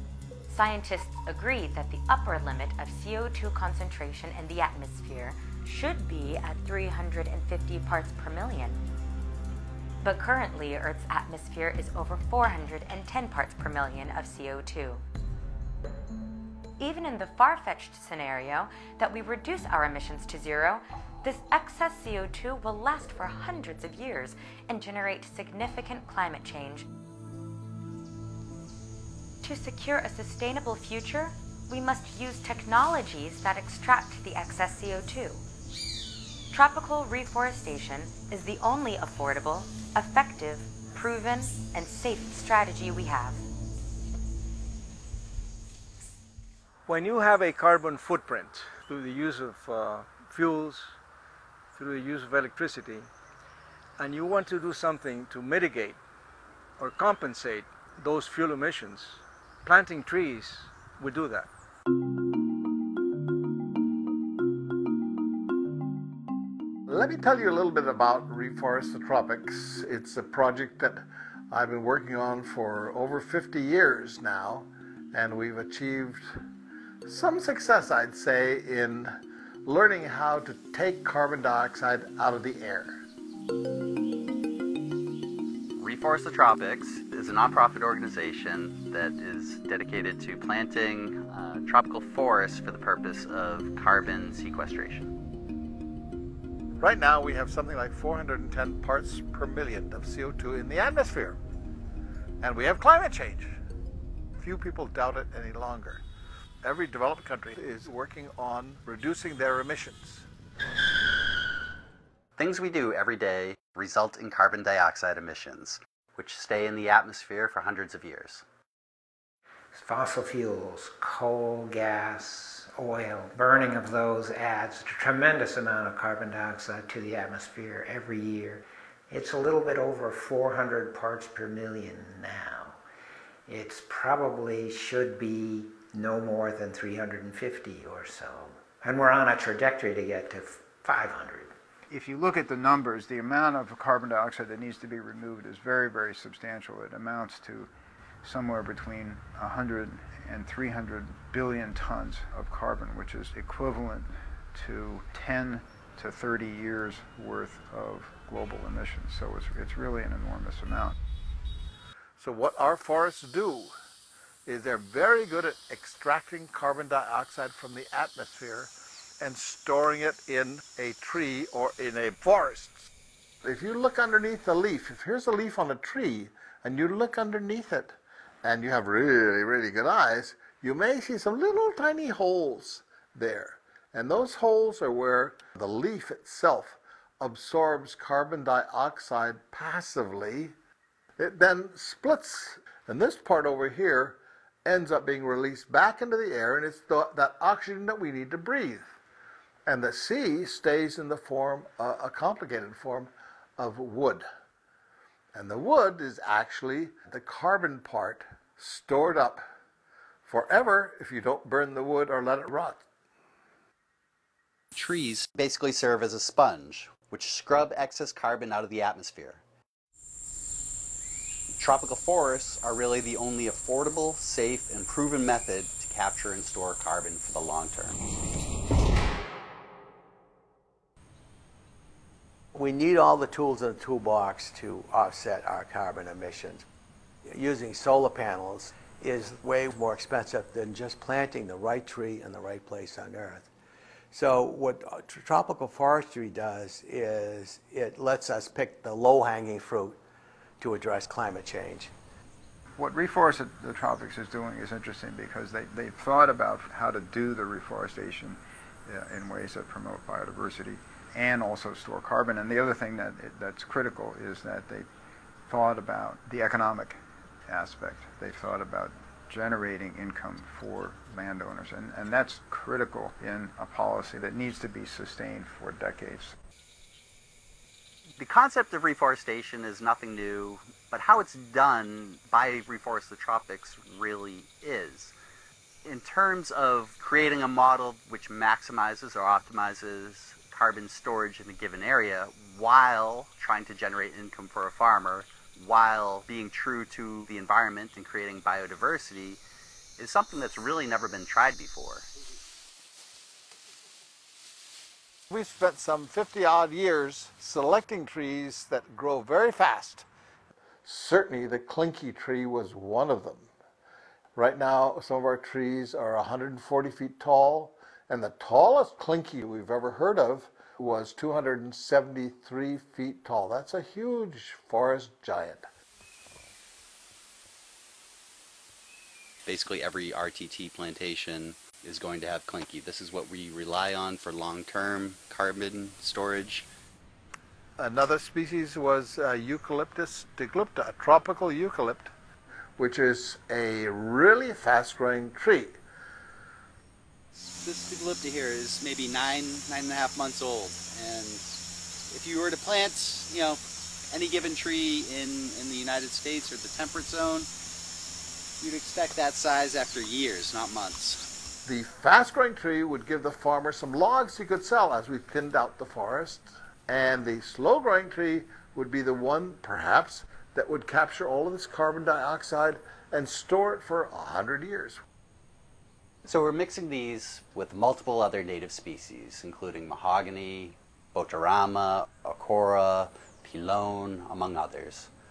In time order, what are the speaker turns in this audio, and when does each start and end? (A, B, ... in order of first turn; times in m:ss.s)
0:00.5-0:08.8 A
0:10.0-0:15.0 A
0:16.8-0:26.8 A
0:29.4-0:35.4 A
0:36.5-0:43.4 A
0:46.9-0:51.0 B
0:51.7-0:53.1 B
0:54.0-0:56.0 B
0:56.8-1:01.5 B
1:06.9-1:16.3 C
1:17.1-1:19.1 C
1:19.7-1:23.0 C
1:25.8-1:35.1 D
1:36.8-1:41.4 C
1:42.4-1:43.6 C
1:44.4-1:46.0 C
1:46.6-1:50.3 C
1:52.4-1:58.4 D
1:59.7-2:12.8 E
2:13.5-2:21.5 E
2:21.9-2:27.7 F
2:28.2-2:41.0 F
2:42.2-2:43.7 C
2:44.5-2:52.9 C
2:53.4-3:10.5 C
3:11.2-3:18.9 C
3:19.7-3:24.2 C
3:25.3-3:29.4 C
3:30.3-3:32.8 C
3:34.7-3:39.4 D
3:41.6-3:48.0 D
3:52.5-3:56.6 G
3:57.3-4:03.5 G
4:04.1-4:10.0 G
4:10.6-4:11.9 G
4:12.8-4:24.9 F
4:25.5-4:36.3 F
4:38.2-4:45.1 D
4:45.8-4:59.4 D
5:00.0-5:02.1 D
5:05.3-5:10.1 C
5:10.8-5:13.5 C
5:14.4-5:25.7 C
5:29.5-5:36.7 D
5:37.8-5:42.1 C
5:42.8-5:45.8 C
5:47.4-5:57.5 D
5:58.6-6:01.2 D
6:01.6-6:15.0 C
6:16.2-6:25.1 D